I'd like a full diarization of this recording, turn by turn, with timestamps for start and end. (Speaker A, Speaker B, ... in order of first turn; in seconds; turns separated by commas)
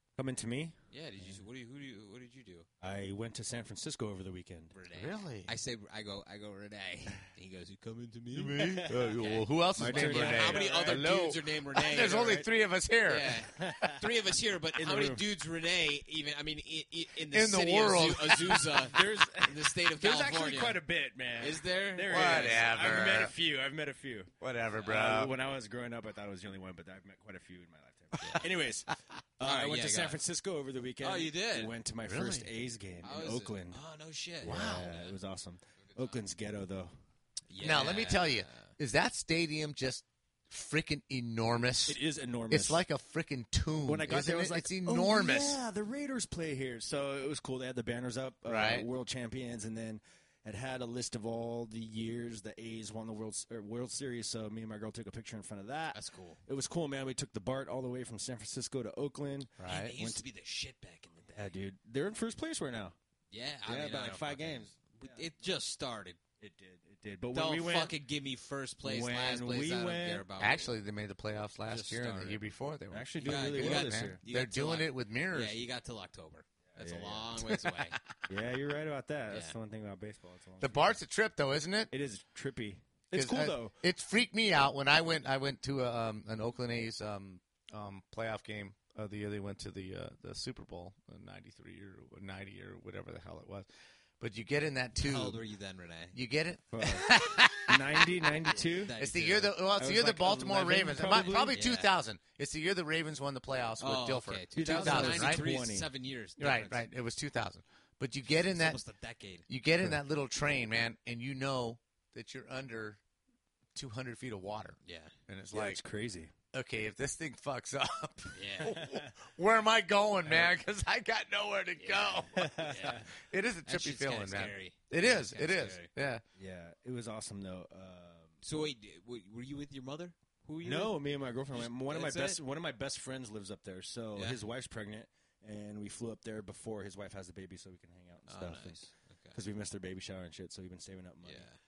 Speaker A: 0.2-1.4, Speaker B: 0.9-2.7, Speaker A: 2.8-4.7, Speaker B: 4.7-8.6, Speaker C: 4.9-5.5, Speaker C: 8.3-13.9, Speaker A: 8.6-9.1, Speaker B: 9.2-12.4, Speaker A: 9.8-11.1, Speaker A: 11.9-12.5, Speaker B: 13.1-20.8, Speaker A: 13.5-14.0, Speaker A: 14.8-15.2, Speaker C: 17.3-18.8, Speaker A: 18.8-24.3, Speaker B: 21.4-22.6, Speaker C: 22.1-23.3, Speaker C: 24.4-25.3, Speaker A: 24.8-33.8, Speaker B: 28.2-28.5, Speaker B: 29.4-30.2, Speaker B: 31.0-31.7, Speaker C: 32.0-32.5, Speaker B: 33.0-35.1, Speaker C: 34.4-35.0, Speaker A: 34.4-36.9, Speaker B: 35.9-36.2, Speaker B: 37.5-38.7, Speaker C: 37.6-45.6, Speaker A: 41.9-42.8, Speaker A: 43.9-60.2, Speaker C: 48.5-48.9, Speaker B: 55.9-56.4, Speaker C: 59.6-59.9, Speaker B: 59.6-61.6, Speaker A: 61.4-63.0, Speaker B: 63.3-66.2, Speaker A: 63.7-65.2, Speaker A: 66.4-68.0, Speaker B: 67.3-70.7, Speaker A: 68.8-70.2, Speaker C: 70.4-75.6, Speaker B: 71.7-72.5, Speaker A: 72.9-74.2, Speaker B: 73.2-78.0, Speaker A: 76.7-77.3, Speaker C: 77.4-77.8, Speaker A: 78.3-81.0, Speaker B: 79.3-79.6, Speaker C: 80.6-81.9, Speaker A: 81.9-83.8, Speaker C: 83.1-93.7, Speaker C: 94.2-95.4, Speaker B: 95.0-96.2, Speaker C: 96.1-98.0, Speaker A: 96.7-98.9, Speaker B: 98.8-99.5, Speaker C: 99.0-105.4, Speaker A: 99.6-101.5, Speaker B: 101.5-101.9, Speaker B: 103.8-106.8, Speaker A: 104.5-105.9, Speaker C: 106.4-108.8, Speaker B: 108.3-109.5, Speaker C: 109.5-113.0, Speaker C: 113.8-115.8, Speaker B: 114.8-115.1, Speaker A: 115.5-116.3, Speaker C: 116.5-126.2, Speaker B: 118.3-118.8, Speaker A: 118.7-119.1, Speaker B: 121.8-123.1, Speaker A: 122.4-123.0, Speaker B: 123.7-125.9, Speaker A: 126.4-128.4, Speaker B: 128.4-131.0, Speaker A: 130.6-141.5, Speaker B: 131.5-132.4, Speaker B: 138.3-139.4, Speaker B: 141.2-141.6